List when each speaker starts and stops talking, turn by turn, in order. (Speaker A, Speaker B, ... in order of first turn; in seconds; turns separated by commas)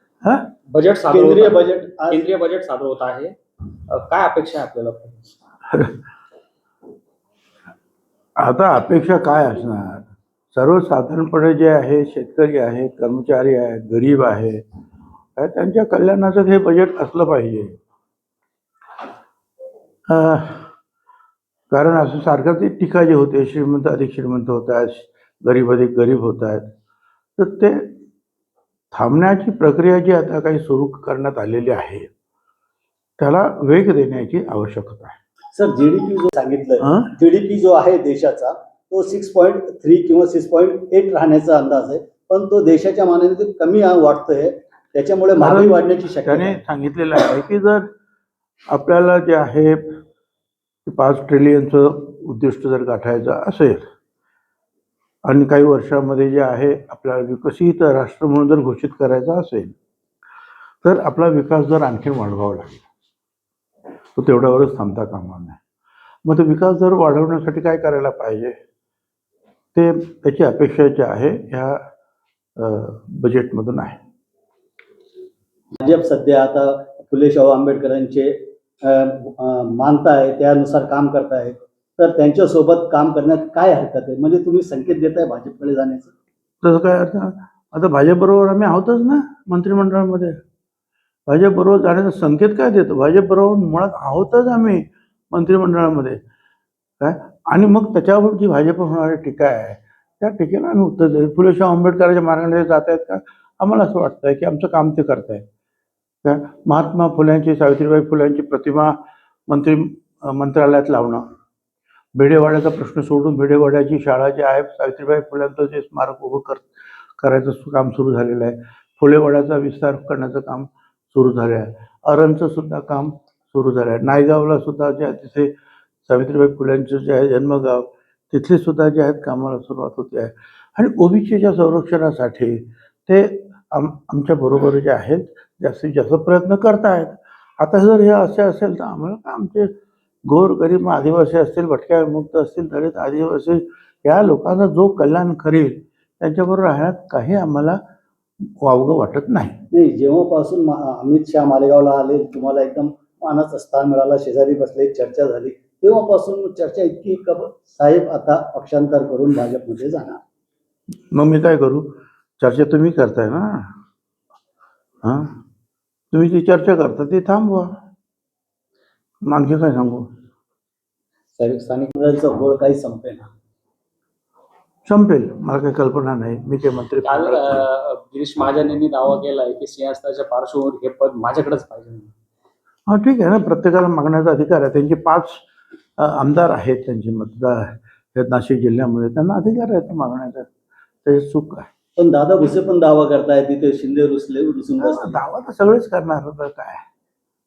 Speaker A: 0.2-0.5, Speaker B: 0.7-3.3, Speaker C: 1.1-2.2, Speaker B: 3.9-5.2, Speaker A: 5.7-6.0, Speaker A: 8.4-14.6, Speaker A: 15.4-17.8, Speaker A: 20.1-20.7, Speaker A: 21.7-26.7, Speaker A: 27.4-27.9, Speaker A: 28.9-32.1, Speaker A: 33.2-35.2, Speaker C: 35.5-46.6, Speaker A: 36.8-37.1, Speaker A: 45.4-47.9, Speaker A: 48.7-49.8, Speaker A: 50.9-53.8, Speaker A: 55.2-59.8, Speaker A: 60.8-62.8, Speaker A: 64.2-65.6, Speaker A: 66.2-68.5, Speaker A: 69.8-71.8, Speaker A: 72.6-74.0, Speaker C: 75.8-86.1, Speaker A: 86.6-90.4, Speaker A: 91.3-96.2, Speaker A: 97.0-105.5, Speaker A: 106.2-109.0, Speaker A: 109.5-111.2, Speaker A: 112.2-116.7, Speaker A: 117.2-125.5, Speaker A: 126.1-139.7, Speaker A: 140.3-147.8, Speaker A: 148.6-149.6, Speaker C: 149.7-160.2, Speaker A: 161.1-163.7, Speaker A: 165.0-165.4, Speaker A: 166.1-167.7, Speaker A: 169.2-170.1, Speaker C: 171.4-173.3, Speaker A: 174.9-177.6, Speaker B: 177.0-182.1, Speaker A: 182.9-185.4, Speaker A: 186.0-190.5, Speaker A: 191.1-191.7, Speaker C: 192.0-195.2, Speaker A: 194.8-196.8